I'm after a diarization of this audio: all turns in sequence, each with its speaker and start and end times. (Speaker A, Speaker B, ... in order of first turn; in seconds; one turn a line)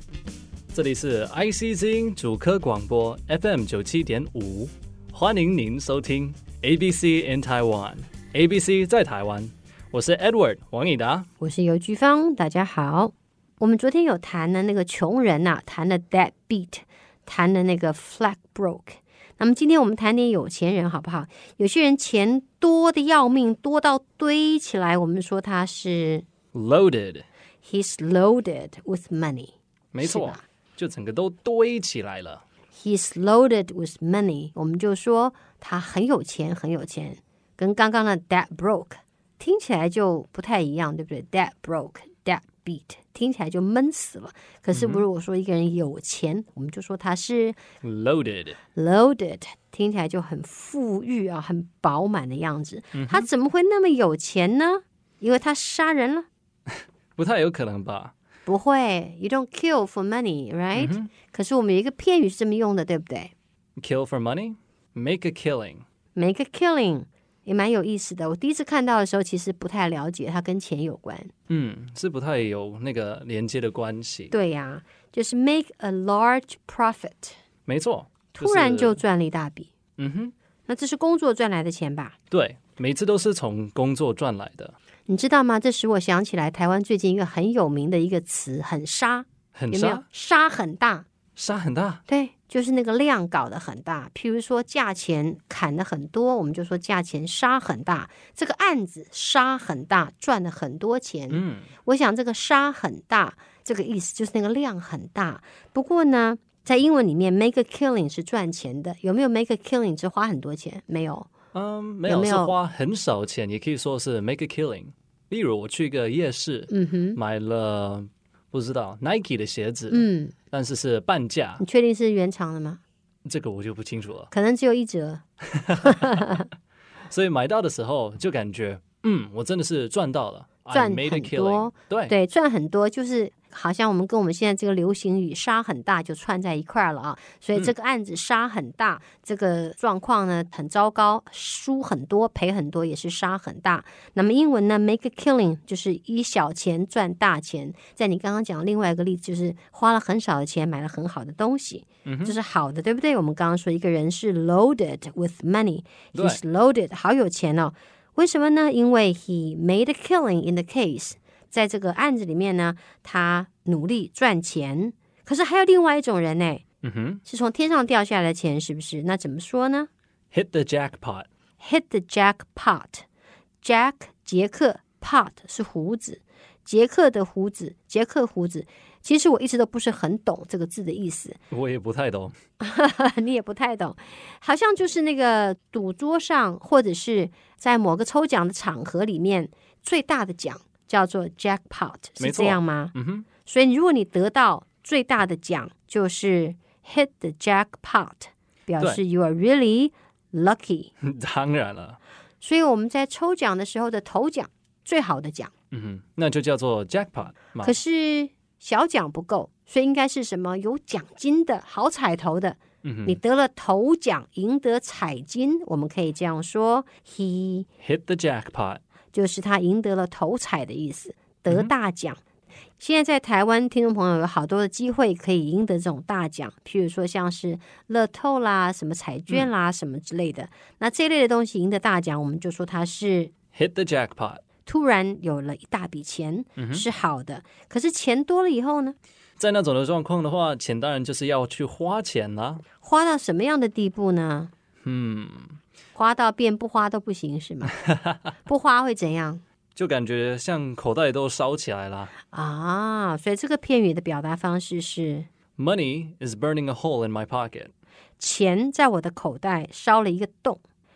Speaker A: 0.7-11.3
Speaker B: 11.4-26.2
Speaker A: 26.5-27.3
Speaker B: 27.6-30.4
Speaker A: 29.9-32.4
Speaker B: 32.7-47.6
Speaker A: 44.7-45.0
Speaker A: 47.8-48.6
Speaker B: 48.8-56.3
Speaker A: 52.9-53.3
Speaker A: 57.2-58.1
Speaker B: 58.5-63.3
Speaker A: 60.8-61.1
Speaker A: 63.8-65.8
Speaker B: 66.2-71.3
Speaker A: 71.5-74.3
Speaker B: 74.3-77.3
Speaker A: 77.7-79.0
Speaker B: 78.3-79.7
Speaker A: 80.0-80.3
Speaker B: 80.7-82.2
Speaker A: 82.3-84.8
Speaker B: 85.1-91.1
Speaker A: 89.5-90.1
Speaker A: 91.4-92.0
Speaker B: 92.1-111.3
Speaker A: 101.3-101.7
Speaker A: 111.5-121.6
Speaker B: 112.1-112.6
Speaker B: 116.7-117.2
Speaker B: 119.9-120.3
Speaker B: 121.6-122.8
Speaker A: 123.2-124.3
Speaker B: 124.3-125.2
Speaker A: 125.5-126.3
Speaker B: 125.8-126.5
Speaker A: 127.1-132.1
Speaker B: 130.7-166.6
Speaker A: 152.1-152.4
Speaker A: 156.1-156.4
Speaker A: 166.8-167.2
Speaker B: 167.2-169.9
Speaker A: 170.3-171.3
Speaker B: 171.6-173.0
Speaker B: 173.6-181.4
Speaker A: 181.5-182.3
Speaker B: 182.6-192.9
Speaker A: 192.2-193.3
Speaker B: 193.4-200.9
Speaker A: 201.0-202.0
Speaker B: 202.4-205.5
Speaker A: 205.7-207.8
Speaker B: 207.6-217.7
Speaker A: 212.8-213.2
Speaker A: 217.8-218.8
Speaker B: 219.1-222.2
Speaker B: 222.8-233.3
Speaker A: 233.5-234.4
Speaker B: 234.7-239.0
Speaker A: 236.6-236.9
Speaker A: 239.4-242.6
Speaker B: 242.8-244.5
Speaker A: 244.8-245.6
Speaker B: 245.9-247.8
Speaker A: 247.8-248.2
Speaker B: 248.4-249.4
Speaker A: 249.8-252.1
Speaker B: 252.3-255.3
Speaker A: 255.6-257.7
Speaker B: 258.2-260.6